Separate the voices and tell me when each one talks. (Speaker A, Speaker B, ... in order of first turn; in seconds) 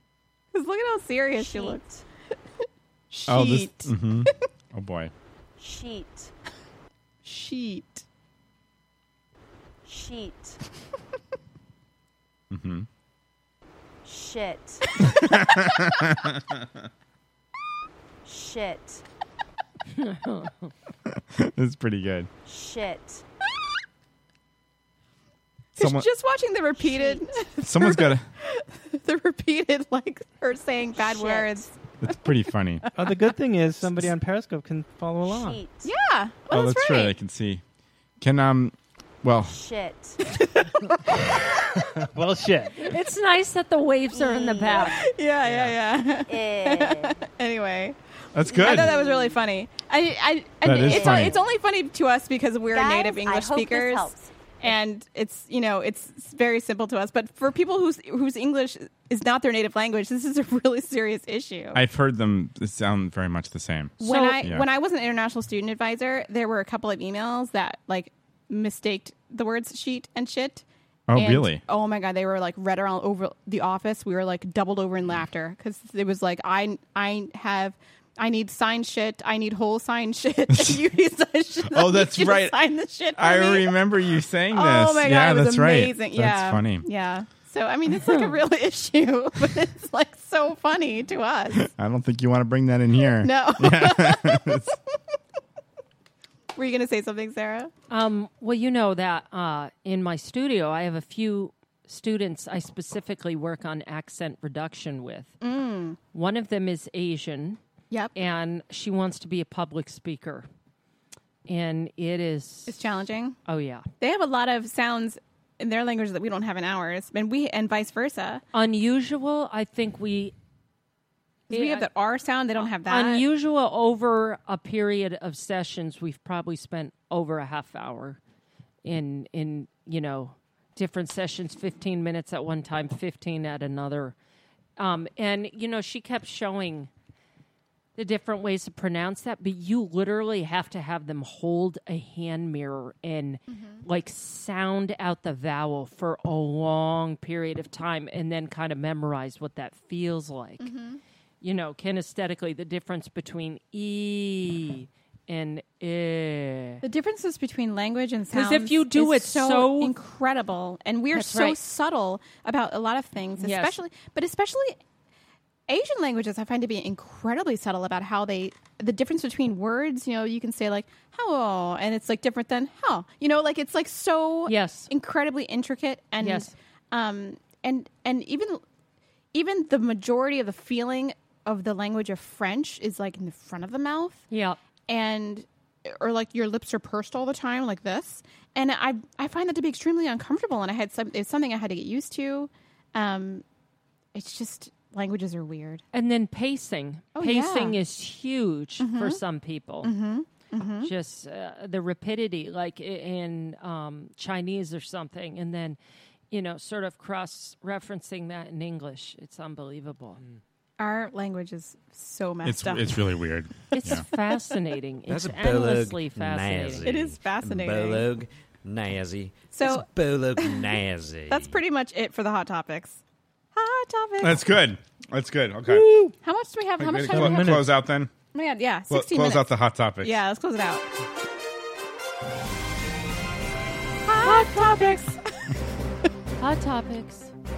Speaker A: 0.5-1.8, 3.1-3.9, 7.2-8.1, 25.8-31.7, 35.8-37.1, 40.3-41.4, 44.8-61.8, 64.0-70.6, 71.2-83.8, 84.5-91.7, 93.2-94.6, 96.6-97.7, 105.4-106.0, 112.7-113.4, 114.0-118.4, 121.5-123.2, 143.5-143.8, 150.6-151.0, 156.8-164.8, 165.7-178.6, 179.3-184.3, 184.9-193.4, 194.2-195.8, 197.2-197.8, 198.8-199.2, 199.8-200.9, 210.8-213.0, 216.8-218.1, 219.5-220.7, 221.3-223.0, 223.5-224.5, 226.2-227.7, 228.3-230.8, 234.1-235.2
Speaker B: 1.4-2.0, 5.6-6.3, 9.8-10.6, 14.1-14.9, 18.2-19.0, 22.5-23.2, 31.0-31.6, 35.2-35.9, 39.4-40.2, 44.1-44.9, 46.3-47.2, 48.6-49.4, 50.8-51.3, 52.7-54.3
Speaker C: 3.3-5.1, 12.5-12.9, 15.1-16.7, 21.1-22.3, 25.8-26.1, 27.6-28.3, 32.0-32.8, 36.5-37.6, 38.2-39.5, 48.3-48.9, 50.6-51.4, 61.7-64.7, 71.1-71.6, 80.5-80.8, 81.7-82.6, 83.2-86.9, 91.6-94.7, 212.4-214.0, 224.2-225.9, 226.8-228.1, 228.9-230.2
Speaker D: 20.0-20.7, 42.8-45.0, 64.0-64.4, 88.1-88.3, 97.9-105.3, 106.1-107.6, 108.2-110.5, 111.5-112.8, 113.5-113.9, 118.5-120.3, 121.5-121.9, 122.6-128.2, 128.8-134.2, 134.8-136.9, 138.0-150.7, 151.4-156.8, 158.3-160.0, 161.1-161.6, 163.4-163.8, 174.5-174.9, 176.2-176.5, 184.3-184.6, 195.9-199.9, 200.8-205.8, 206.3-210.2, 213.7-216.9, 234.2-234.9, 236.4-237.3
Speaker E: 33.0-35.6, 42.1-42.9, 225.7-226.1, 227.0-227.7
Speaker F: 215.1-221.6